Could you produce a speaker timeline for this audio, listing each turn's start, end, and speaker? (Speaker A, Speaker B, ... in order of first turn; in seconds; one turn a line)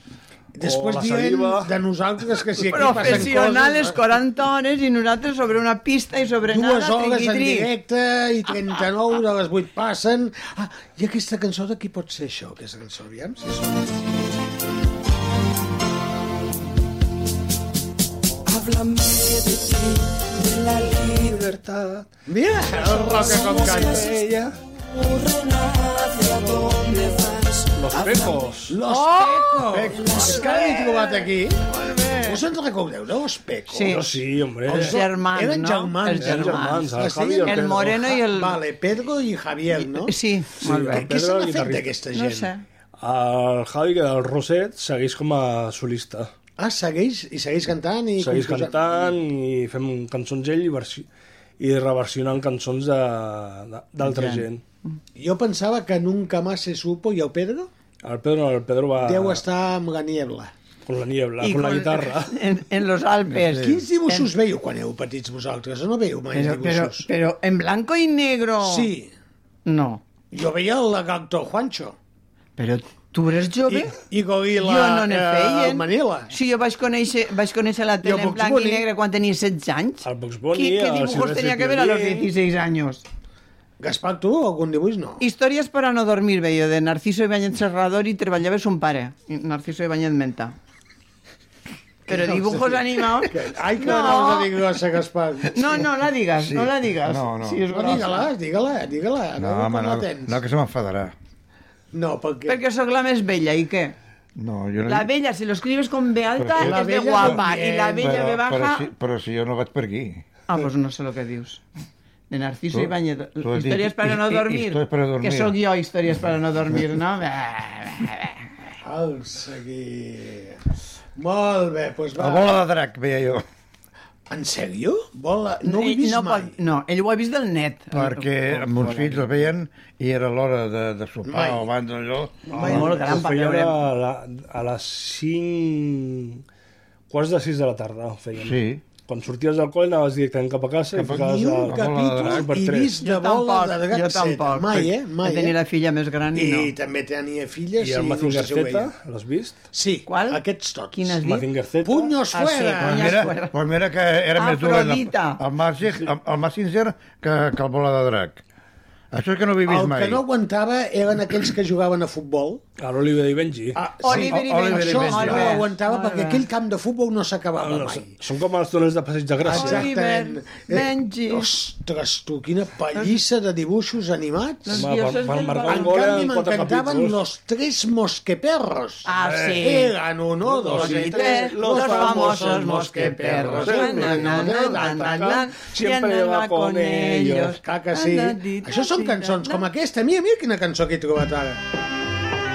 Speaker A: 0.5-4.0
Speaker B: 0.6-1.7
Speaker C: 2.6-7.7
Speaker A: 6.5-14.0
Speaker D: 18.5-20.0
Speaker D: 20.5-21.1
Speaker B: 21.2-22.1
Speaker A: 22.3-24.1
Speaker B: 22.7-24.6
Speaker D: 23.6-24.1
Speaker D: 25.5-27.3
Speaker B: 27.7-28.8
Speaker D: 27.9-28.3
Speaker A: 28.7-31.6
Speaker C: 28.9-30.8
Speaker C: 31.8-32.3
Speaker A: 32.2-40.1
Speaker C: 33.7-34.0
Speaker B: 33.8-35.0
Speaker C: 34.7-38.6
Speaker B: 36.2-38.1
Speaker C: 39.7-41.1
Speaker B: 40.6-41.9
Speaker A: 40.9-42.5
Speaker C: 42.1-42.6
Speaker B: 43.0-46.3
Speaker A: 46.6-49.1
Speaker B: 48.2-51.1
Speaker B: 51.6-54.6
Speaker C: 54.0-54.9
Speaker A: 55.1-57.7
Speaker B: 58.0-59.4
Speaker A: 59.0-60.5
Speaker B: 60.9-62.3
Speaker C: 61.4-64.3
Speaker E: 63.3-63.8
Speaker A: 63.5-67.1
Speaker C: 66.3-68.9
Speaker A: 68.6-69.1
Speaker C: 69.7-70.0
Speaker A: 70.3-72.0
Speaker C: 72.6-73.9
Speaker A: 73.7-76.3
Speaker C: 74.6-83.0
Speaker A: 78.0-78.9
Speaker B: 80.0-82.3
Speaker A: 83.8-85.2
Speaker C: 85.2-90.5
Speaker C: 92.1-94.5
Speaker A: 92.1-96.0
Speaker C: 95.5-98.3
Speaker E: 96.4-98.0
Speaker A: 97.7-100.4
Speaker E: 99.4-101.1
Speaker A: 101.9-102.6
Speaker C: 102.5-104.0
Speaker E: 104.3-105.1
Speaker C: 104.8-108.9
Speaker E: 106.4-110.2
Speaker A: 106.6-108.1
Speaker C: 110.5-111.6
Speaker C: 112.3-118.4
Speaker E: 112.7-115.6
Speaker A: 118.8-120.6
Speaker A: 121.2-122.5
Speaker E: 122.2-123.4
Speaker A: 124.3-126.5
Speaker C: 125.6-129.4
Speaker E: 127.9-133.0
Speaker A: 131.3-131.7
Speaker A: 132.5-133.2
Speaker B: 132.5-136.4
Speaker C: 132.6-133.8
Speaker B: 137.1-143.0
Speaker E: 138.4-138.8
Speaker E: 140.9-142.5
Speaker A: 141.2-145.5
Speaker C: 143.0-146.7
Speaker A: 146.3-148.9
Speaker B: 147.8-149.6
Speaker A: 149.7-151.1
Speaker C: 150.1-150.4
Speaker C: 150.9-151.4
Speaker B: 151.2-152.1
Speaker A: 151.8-153.3
Speaker C: 152.3-153.5
Speaker E: 152.8-158.4
Speaker C: 154.3-155.4
Speaker E: 159.1-160.2
Speaker A: 159.7-162.6
Speaker B: 162.8-163.8
Speaker A: 163.8-168.2
Speaker C: 164.0-166.4
Speaker E: 164.1-165.6
Speaker B: 167.6-169.9
Speaker A: 169.4-174.9
Speaker C: 169.5-171.5
Speaker C: 174.7-176.0
Speaker B: 174.7-177.2
Speaker A: 175.7-185.4
Speaker C: 179.1-179.9
Speaker B: 179.2-179.6
Speaker B: 180.4-182.7
Speaker C: 180.7-189.6
Speaker B: 183.2-187.6
Speaker A: 187.6-191.6